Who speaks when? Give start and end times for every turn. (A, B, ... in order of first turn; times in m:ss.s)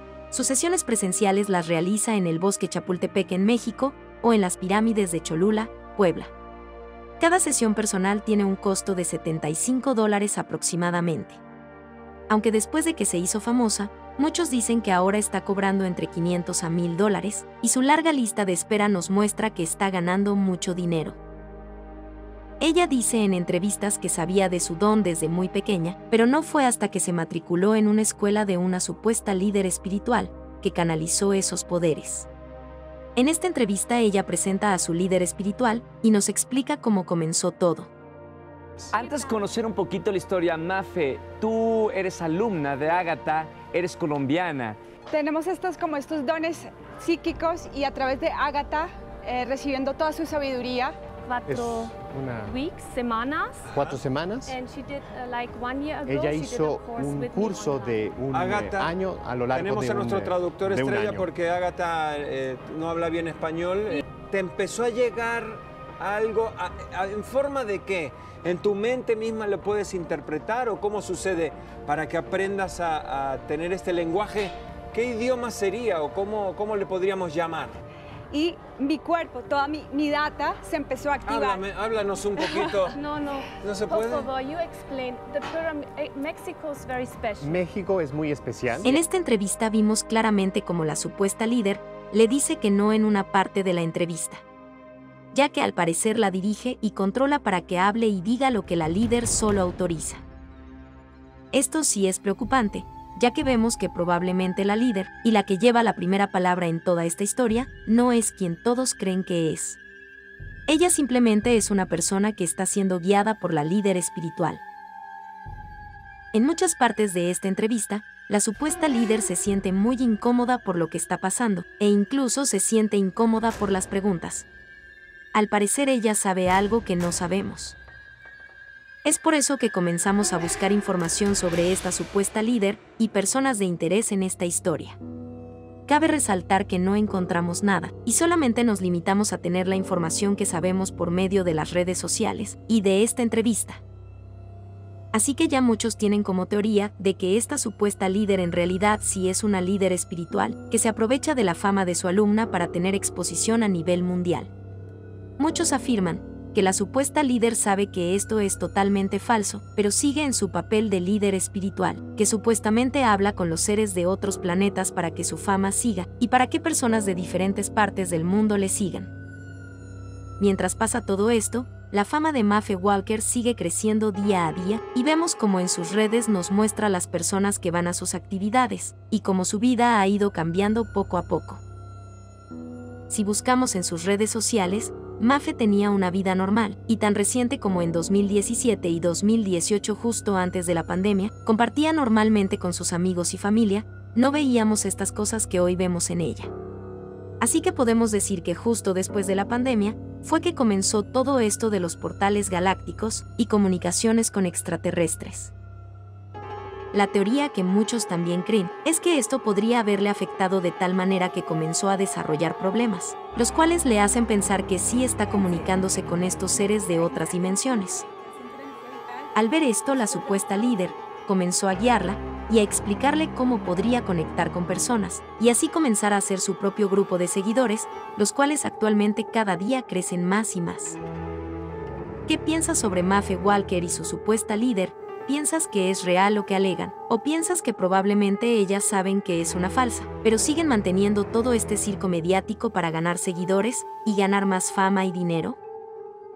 0:00.3-0:06.3 A
0:07.2-0:11.4 A
0:12.3-0:21.2 A
0:22.6-0:32.3 A
0:33.2-0:37.9 A
0:38.9-0:44.8 B
0:38.9-0:39.4 C
0:45.1-0:51.0 D
0:51.2-0:53.7 C
0:51.5-0:52.6 E
0:53.7-0:54.6 E
0:53.7-0:54.0 F
0:54.5-0:58.0 C
0:56.0-1:01.3 E
0:58.3-0:58.9 F
0:59.5-1:17.8 F
1:18.3-1:21.6 D
1:21.3-1:23.0 F
1:22.4-1:22.9 D
1:22.9-1:27.6 C
1:23.6-1:24.3 F
1:27.4-1:29.0 E
1:28.8-1:34.4 A
1:35.3-1:40.2 A
1:41.5-1:49.8 A
1:50.7-1:54.6 A
1:56.3-2:04.5 A
2:05.3-2:07.8 A
2:09.0-2:15.0 A
2:15.9-2:23.8 A
2:25.1-2:34.5 A
2:35.4-2:49.1 A
2:50.4-3:01.6 A
3:03.1-3:16.5 A
3:17.4-3:25.5 A
3:26.9-3:38.0 A
3:35.3-3:40.8 D
3:39.4-3:51.0 A
3:52.3-4:05.6 A